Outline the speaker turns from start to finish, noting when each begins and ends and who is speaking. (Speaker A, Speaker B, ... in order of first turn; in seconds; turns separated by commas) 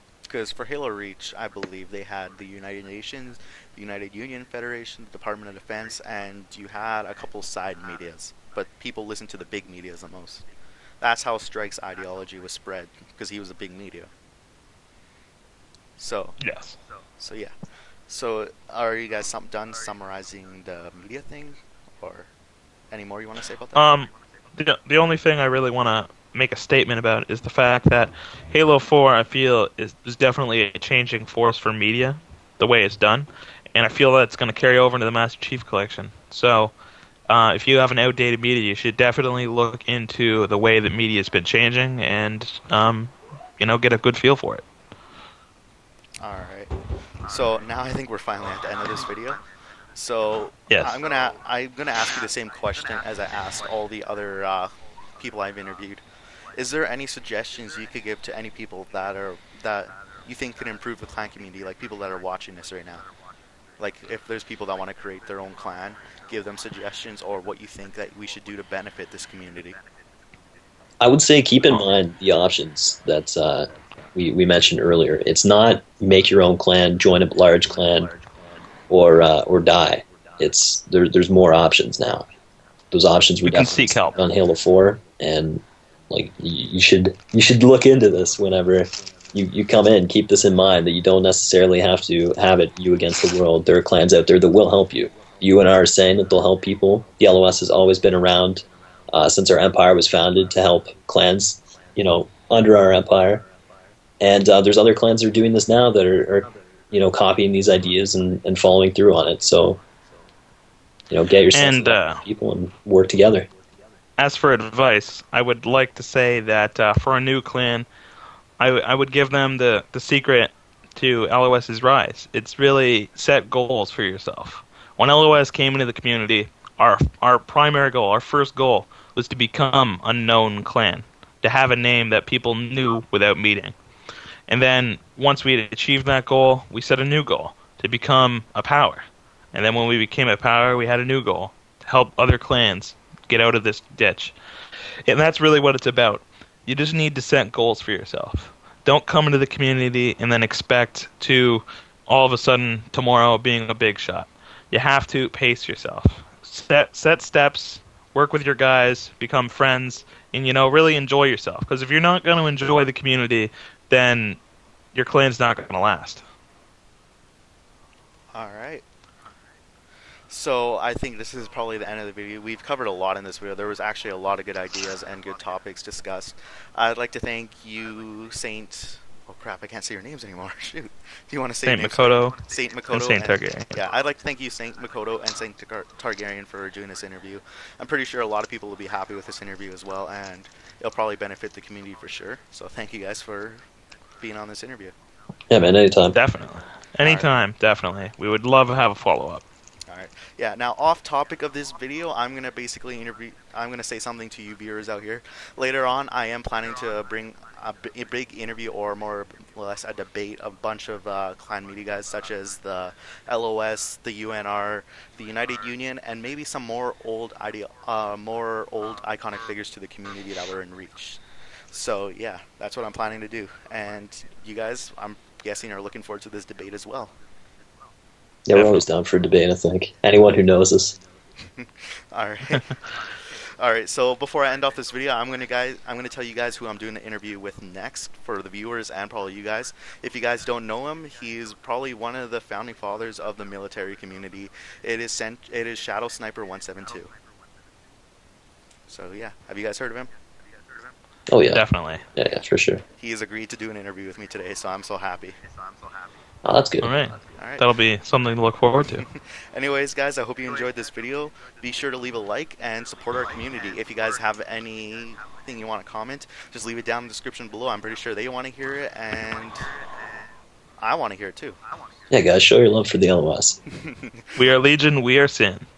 Speaker A: 0.2-10.5, Speaker A: 11.0-14.1, Speaker A: 16.0-16.4, Speaker B: 16.4-16.8, Speaker A: 17.2-17.5, Speaker A: 18.1-22.3, Speaker A: 22.9-23.9, Speaker B: 23.7-36.7, Speaker B: 37.3-44.6, Speaker A: 46.2-46.7, Speaker A: 47.2-49.4, Speaker A: 49.9-56.0, Speaker B: 50.7-50.9, Speaker A: 56.5-63.0, Speaker A: 63.8-69.8, Speaker C: 71.0-78.1, Speaker C: 78.9-82.3, Speaker C: 82.9-103.5, Speaker B: 83.4-84.2, Speaker C: 104.2-109.8, Speaker C: 111.1-113.5, Speaker B: 111.5-112.2, Speaker B: 114.2-117.9, Speaker B: 118.6-133.7, Speaker B: 134.5-144.3, Speaker B: 145.1-164.4, Speaker B: 164.9-166.2, Speaker A: 168.3-168.8, Speaker A: 170.3-193.6, Speaker B: 181.6-183.7, Speaker A: 194.2-194.9, Speaker C: 195.5-196.2, Speaker B: 196.1-199.4, Speaker A: 197.0-197.3, Speaker A: 199.9-227.1, Speaker C: 228.5-231.0, Speaker B: 228.5-228.8, Speaker A: 231.4-232.7, Speaker A: 233.6-247.1, Speaker A: 248.9-250.1, Speaker C: 251.3-251.6, Speaker B: 251.5-252.0, Speaker C: 252.1-252.8, Speaker A: 253.0-255.4, Speaker C: 256.4-256.9, Speaker B: 256.8-259.0, Speaker A: 257.4-257.6, Speaker A: 259.0-269.7, Speaker A: 270.8-271.6, Speaker C: 272.1-273.6, Speaker A: 273.7-274.3, Speaker B: 274.4-275.6